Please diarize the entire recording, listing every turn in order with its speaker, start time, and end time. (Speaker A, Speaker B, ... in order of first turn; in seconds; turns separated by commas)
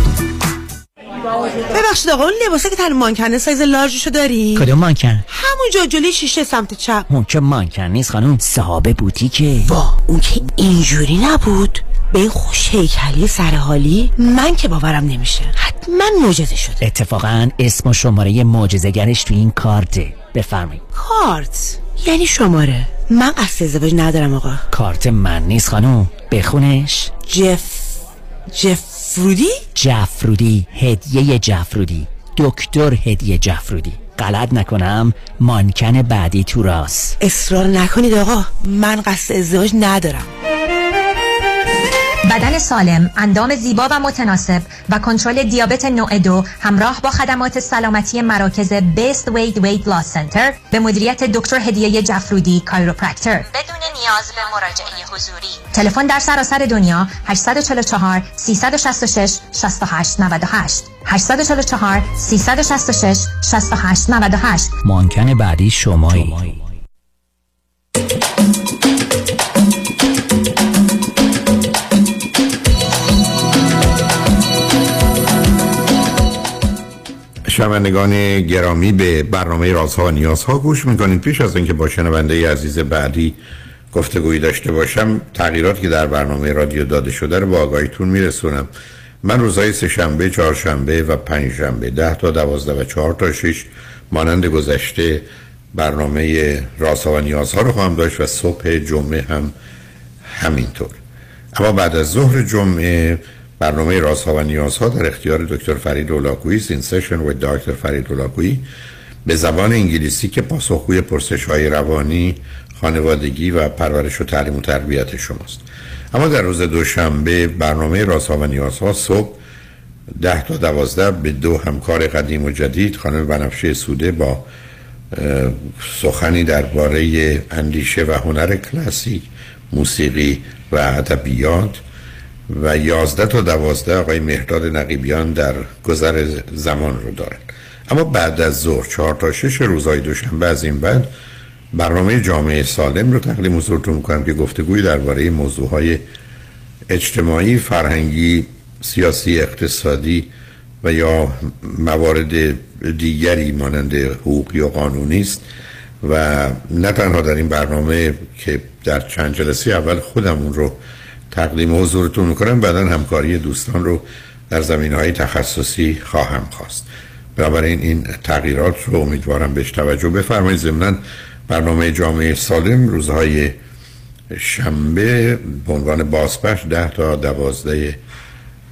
Speaker A: 1.7-4.7, Speaker B: 4.5-5.2, Speaker A: 5.3-7.1, Speaker B: 7.1-9.7, Speaker A: 9.6-16.8, Speaker B: 16.8-20.8, Speaker A: 20.9-24.6, Speaker B: 24.7-27.2, Speaker A: 27.2-28.0, Speaker A: 28.5-29.6, Speaker B: 29.7-37.2, Speaker A: 37.2-40.3, Speaker C: 42.3-64.7, Speaker B: 64.8-66.6, Speaker D: 77.5-83.4, Speaker D: 83.9-88.7, Speaker D: 89.2-99.5, Speaker D: 100.3-101.0, Speaker D: 101.5-108.6, Speaker D: 109.2-119.4, Speaker D: 120.1-124.5, Speaker D: 125.1-131.8, Speaker D: 132.5-141.1, Speaker D: 141.7-146.0, Speaker D: 146.9-150.3, Speaker D: 150.8-155.4, Speaker D: 156.0-160.8, Speaker D: 161.3-173.6, Speaker D: 174.3-178.0